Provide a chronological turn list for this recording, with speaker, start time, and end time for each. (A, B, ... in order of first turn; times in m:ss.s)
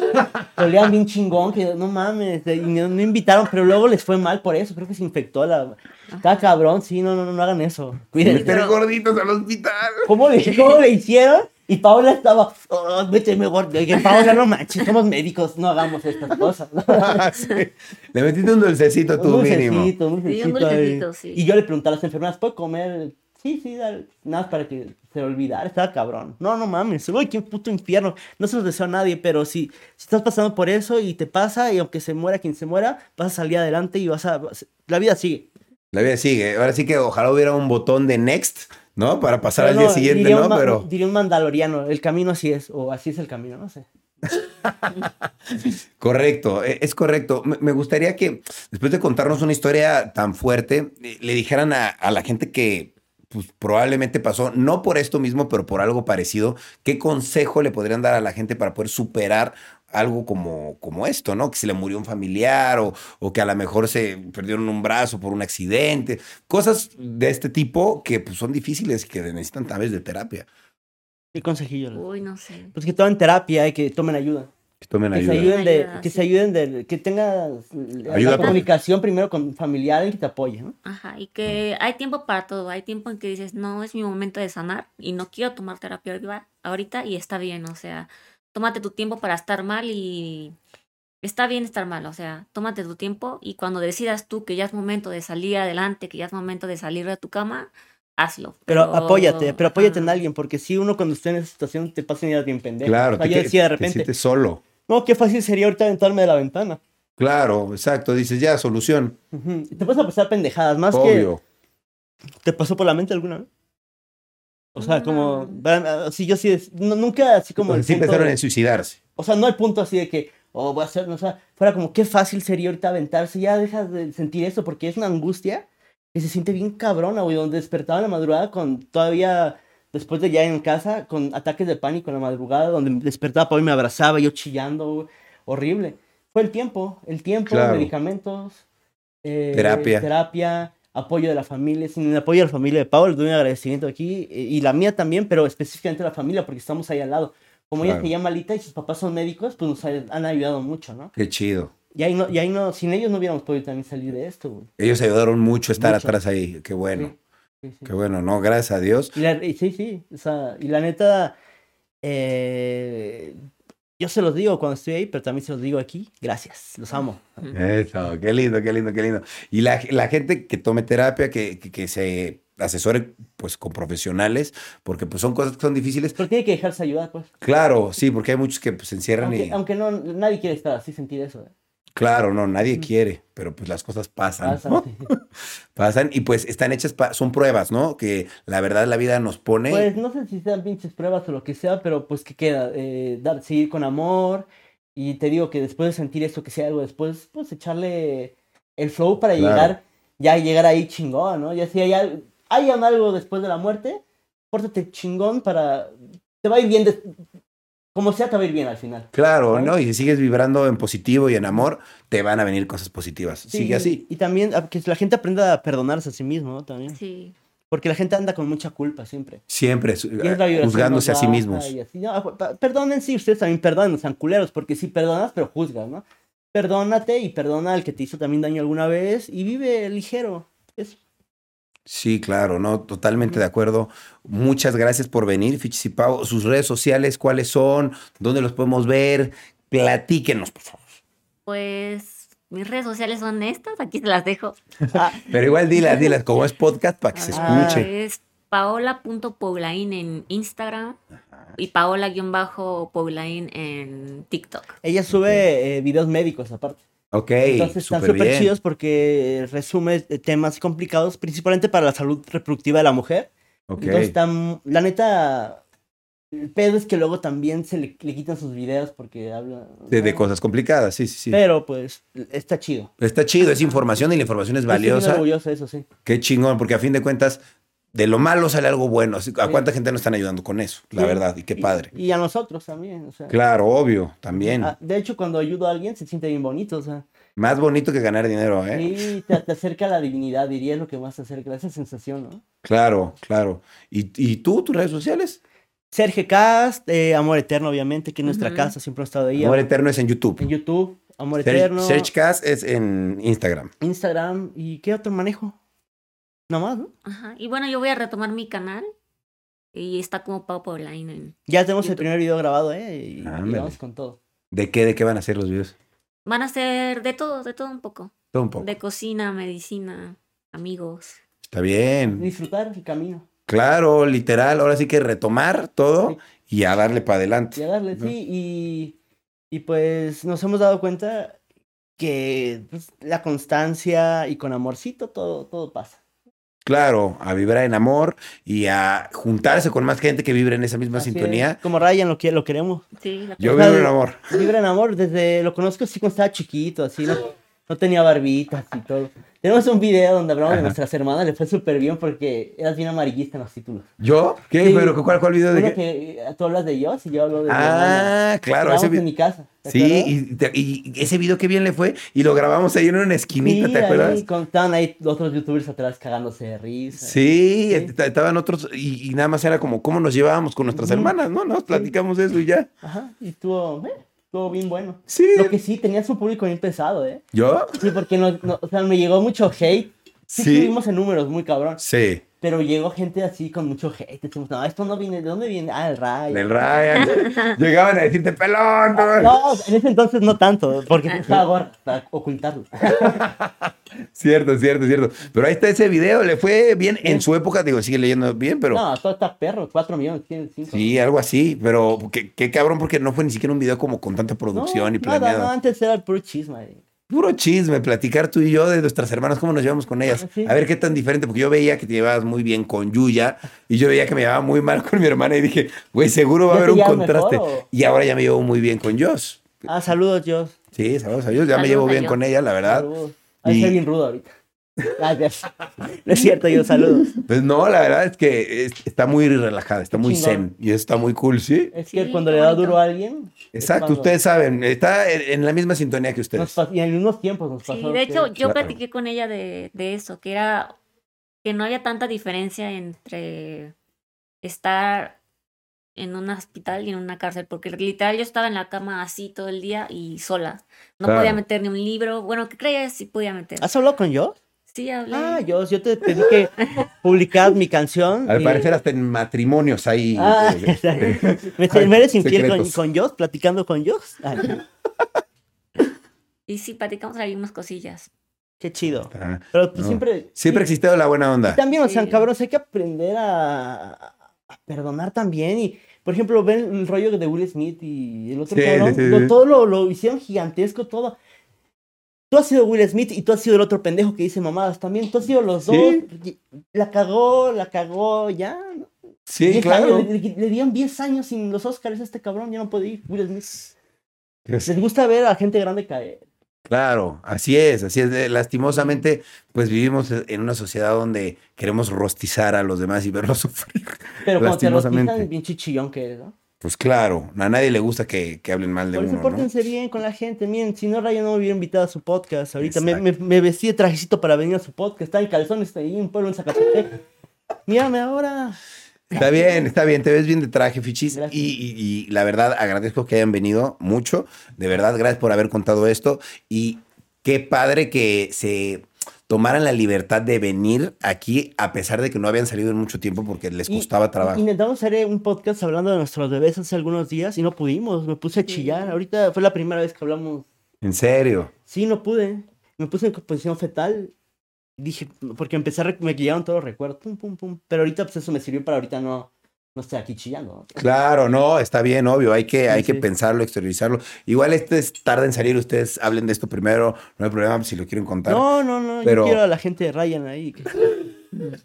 0:00.5-0:08.8 A
0:08.2-0:10.1 B
0:10.0-0:17.3 A
0:16.9-0:19.9 B
0:19.2-0:35.5 A
0:20.2-0:21.4 C
0:35.9-0:40.9 B
0:39.6-0:43.9 A
0:44.3-1:10.4 B
1:11.3-1:12.0 A
1:11.9-1:12.7 C
1:12.7-1:14.5 A
1:14.8-1:15.5 B
1:15.1-1:20.7 A
1:15.3-1:16.3 C
1:18.1-1:18.6 B
1:18.2-1:18.6 C
1:20.8-1:30.6 C
1:31.2-1:40.2 C
1:38.7-1:44.1 A
1:42.8-1:44.6 B
1:44.8-1:46.8 A
1:47.2-1:49.2 B
1:49.3-1:51.3 A
1:50.9-1:51.4 B
1:52.4-1:53.5 A
1:54.7-1:58.4 A
1:54.8-1:55.6 C
1:57.7-1:59.0 B
1:59.2-2:18.6 A
2:17.5-2:17.9 B
2:19.2-2:31.1 A
2:19.5-2:20.1 B
2:27.8-2:28.1 B
2:31.2-2:31.7 B
2:31.9-2:34.7 A
2:34.8-2:37.1 B
2:35.8-2:36.2 A
2:36.9-2:37.9 A
2:37.8-2:39.2 B
2:39.1-2:41.4 A
2:42.0-2:43.4 A
2:44.0-2:47.2 A
2:47.5-2:56.2 B
2:56.2-2:57.3 A
2:57.4-2:59.6 B
2:59.2-3:01.5 A
3:02.0-3:09.9 B
3:04.4-3:05.1 A
3:09.7-3:27.1 A
3:19.4-3:19.7 B
3:27.9-3:29.7 A
3:29.1-3:34.0 B
3:33.5-3:37.0 A
3:36.9-3:37.3 C
3:37.7-3:39.4 A
3:39.5-3:41.7 B
3:40.2-3:51.0 A
3:51.9-4:01.0 B
4:01.4-4:04.6 C
4:04.9-4:05.2 A
4:05.3-4:07.9 B
4:07.1-4:11.0 C
4:07.3-4:07.9 A
4:11.6-4:14.7 C
4:14.8-4:16.8 A
4:15.1-4:15.4 B
4:17.1-4:18.5 B
4:17.4-4:25.6 A
4:23.7-4:24.1 B
4:26.3-4:30.3 A
4:29.9-4:31.4 B
4:31.3-4:32.9 A
4:33.0-4:35.2 B
4:33.4-4:34.0 C
4:34.7-4:35.8 A
4:36.0-4:37.4 B
4:37.9-4:41.9 B
4:41.0-4:43.4 A
4:43.3-4:44.7 B
4:44.3-4:47.0 A
4:47.4-4:48.9 B
4:48.7-4:52.4 A
4:52.6-4:55.4 B
4:55.9-4:59.6 A
4:58.2-4:58.7 C
4:59.4-5:00.5 B
5:00.4-5:02.1 A
5:01.4-5:03.7 B
5:03.8-5:05.6 A
5:06.5-5:06.9 A
5:07.0-5:08.8 C
5:09.7-5:12.0 C
5:11.5-5:14.2 A
5:13.2-5:13.8 B
5:14.5-5:15.7 B
5:16.2-5:21.2 C
5:18.3-5:18.7 B
5:21.5-5:22.3 B
5:22.0-5:23.2 A
5:23.5-5:28.1 B
5:27.6-5:29.0 A
5:29.5-5:31.4 A
5:32.0-5:36.0 A
5:36.6-5:41.6 B
5:40.9-5:42.8 A
5:43.0-5:43.7 C
5:43.4-5:44.2 B
5:43.4-5:53.9 A
5:50.5-5:50.8 B
5:54.0-5:55.8 B
5:54.6-5:55.0 A
5:55.5-6:00.1 A
5:57.5-5:59.0 B
5:59.6-6:04.2 B
6:03.4-6:07.9 A
6:07.0-6:12.7 B
6:10.7-6:11.1 A
6:12.8-6:17.2 A
6:15.1-6:15.6 B
6:17.3-6:17.8 B
6:17.7-6:21.8 A
6:20.3-6:20.8 B
6:21.8-6:22.2 B
6:22.4-6:26.6 A
6:26.3-6:29.5 B
6:27.0-6:27.5 C
6:28.9-6:33.2 A
6:33.0-6:38.8 B
6:38.7-6:41.0 A
6:40.7-6:45.5 B
6:44.5-6:46.8 A
6:47.1-6:59.6 B
6:50.2-6:50.6 A
6:56.5-6:57.7 A
6:59.6-7:00.6 A
7:00.7-7:02.9 B
7:01.5-7:02.2 C
7:02.6-7:04.3 A
7:03.4-7:03.8 B
7:04.9-7:07.1 A
7:07.0-7:11.7 B
7:09.9-7:10.4 A
7:11.7-7:14.1 A
7:11.9-7:12.8 C
7:13.5-7:16.5 B
7:16.4-7:18.3 A
7:17.7-7:20.8 C
7:18.4-7:18.8 B
7:21.4-7:23.7 C
7:24.4-7:25.2 C
7:26.0-7:33.7 C
7:31.0-7:31.4 B
7:33.6-7:34.4 A
7:34.7-7:35.4 C
7:35.1-7:38.6 A
7:38.3-7:42.8 B
7:40.2-7:44.6 A
7:46.5-7:48.1 C
7:48.6-7:50.7 A
7:49.1-7:51.6 B
7:51.4-7:54.1 A
7:51.8-7:52.3 C
7:54.7-8:01.2 A
7:58.5-7:59.3 B
8:02.3-8:08.9 A
8:05.6-8:06.0 B
8:09.3-8:10.1 B
8:09.4-8:13.7 A
8:14.6-8:16.2 A
8:16.7-8:25.3 B
8:24.2-8:26.3 A
8:26.6-8:29.5 B
8:28.9-8:37.0 A
8:32.6-8:33.0 B
8:37.7-8:38.6 A
8:39.1-8:54.4 B
8:41.1-8:41.5 A
8:53.7-9:00.5 A
8:58.3-8:59.0 C
9:00.8-9:01.5 B
9:01.7-9:04.1 A
9:04.8-9:10.8 A
9:10.8-9:18.5 B
9:12.7-9:13.0 A
9:18.2-9:20.7 A
9:19.0-9:19.4 B
9:20.8-9:21.1 B